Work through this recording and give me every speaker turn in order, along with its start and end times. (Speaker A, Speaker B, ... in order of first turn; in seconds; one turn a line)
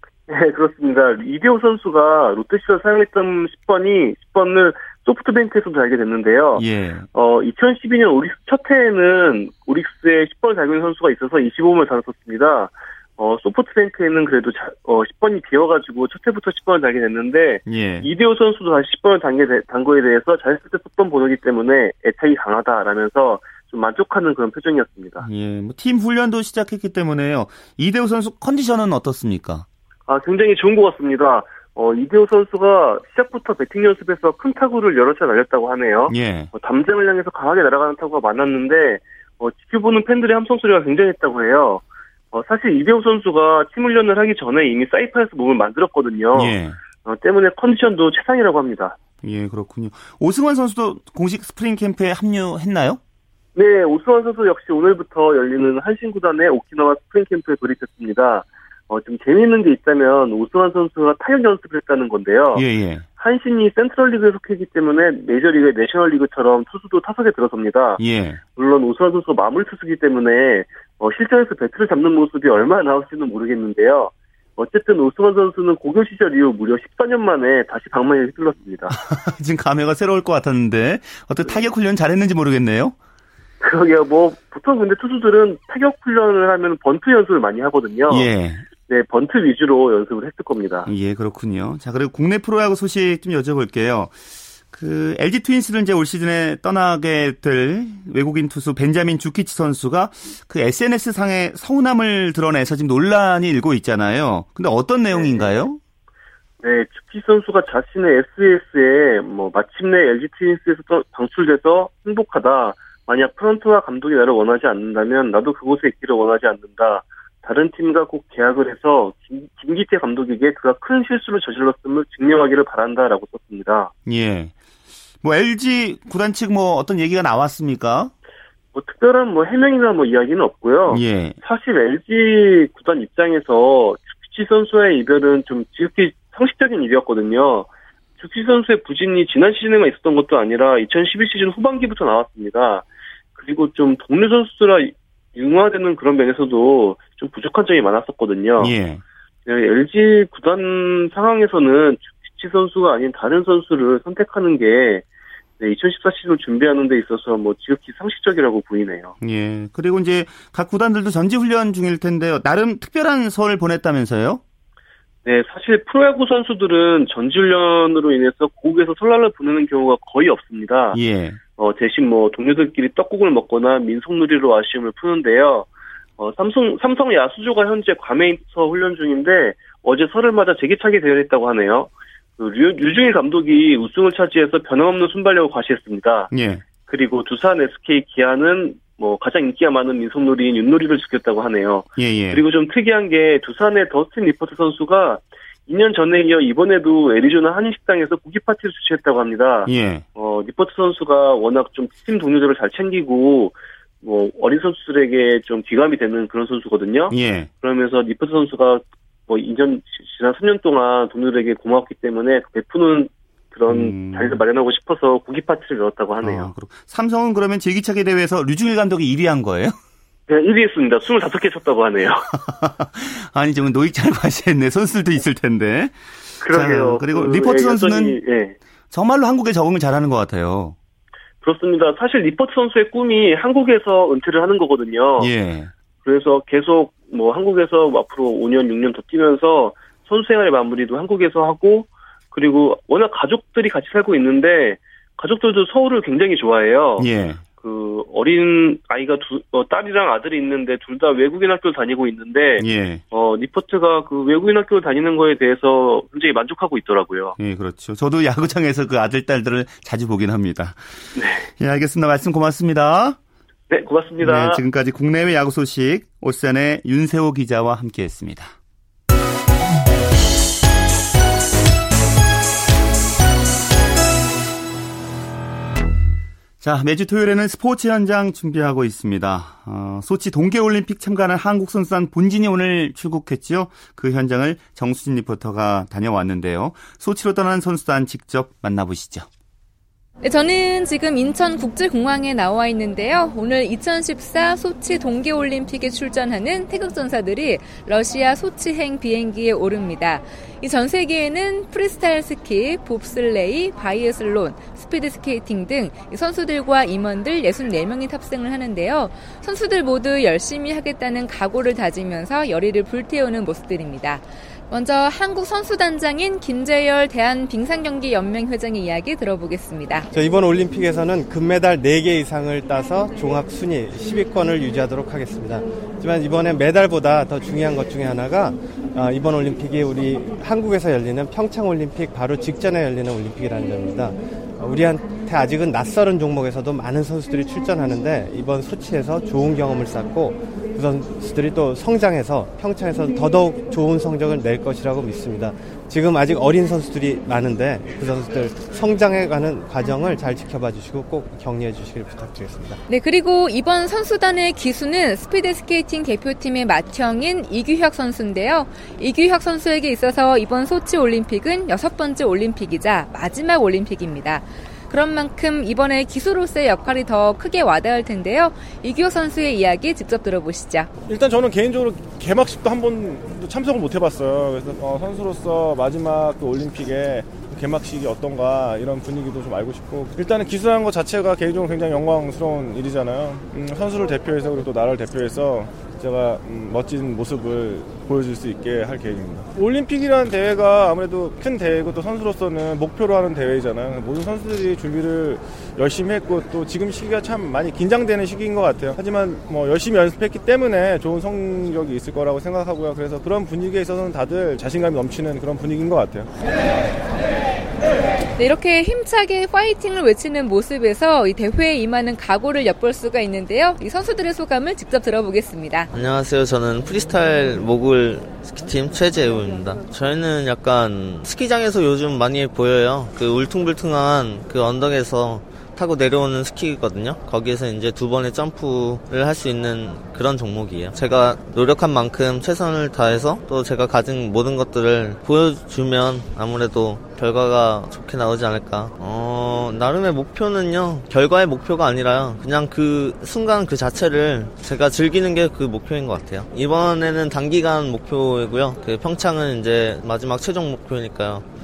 Speaker A: 0.3-25.3
Speaker B: 6.5-7.1
Speaker B: 17.6-18.1
Speaker B: 25.2-29.7
Speaker A: 30.1-49.0
Speaker B: 36.1-36.5
Speaker B: 46.3-46.8
Speaker B: 49.2-53.0
Speaker A: 53.5-62.6
Speaker B: 62.5-63.1
Speaker A: 63.2-68.0
Speaker B: 68.0-68.4
Speaker A: 68.5-78.9
Speaker B: 78.9-83.0
Speaker A: 83.6-88.3
Speaker B: 88.1-88.7
Speaker A: 88.9-90.9
Speaker B: 90.9-94.2
Speaker B: 94.7-105.8
Speaker A: 105.1-105.6
Speaker A: 106.6-123.9
Speaker B: 124.1-124.5
Speaker B: 125.2-128.1
Speaker A: 128.7-137.7
Speaker B: 130.9-131.4
Speaker A: 138.2-148.7
Speaker B: 148.6-149.0
Speaker A: 149.5-155.1
Speaker A: 155.6-159.1
Speaker B: 159.2-164.4
Speaker A: 165.2-171.0
Speaker B: 170.9-171.4
Speaker A: 171.6-186.3
Speaker B: 186.3-186.7
Speaker A: 186.9-216.5
Speaker B: 192.0-192.4
Speaker B: 199.7-200.1
Speaker B: 207.1-207.5
Speaker B: 213.7-214.4
Speaker B: 216.2-219.8
Speaker A: 220.3-222.3
Speaker B: 222.3-228.2
Speaker A: 226.4-228.6
Speaker B: 228.9-230.8
Speaker A: 231.4-235.3
Speaker B: 235.2-235.7
Speaker A: 236.0-247.1
Speaker B: 247.0-247.4
Speaker A: 247.6-257.4
Speaker B: 252.6-253.0
Speaker B: 257.4-261.1
Speaker A: 261.2-261.4
Speaker B: 261.6-263.2
Speaker A: 263.7-264.6
Speaker B: 264.2-268.5
Speaker B: 276.6-289.3
Speaker C: 290.2-320.1
Speaker D: 320.1-352.8
Speaker C: 352.9-370.9
Speaker E: 371.1-406.3
Speaker C: 408.4-415.9
Speaker F: 415.9-451.4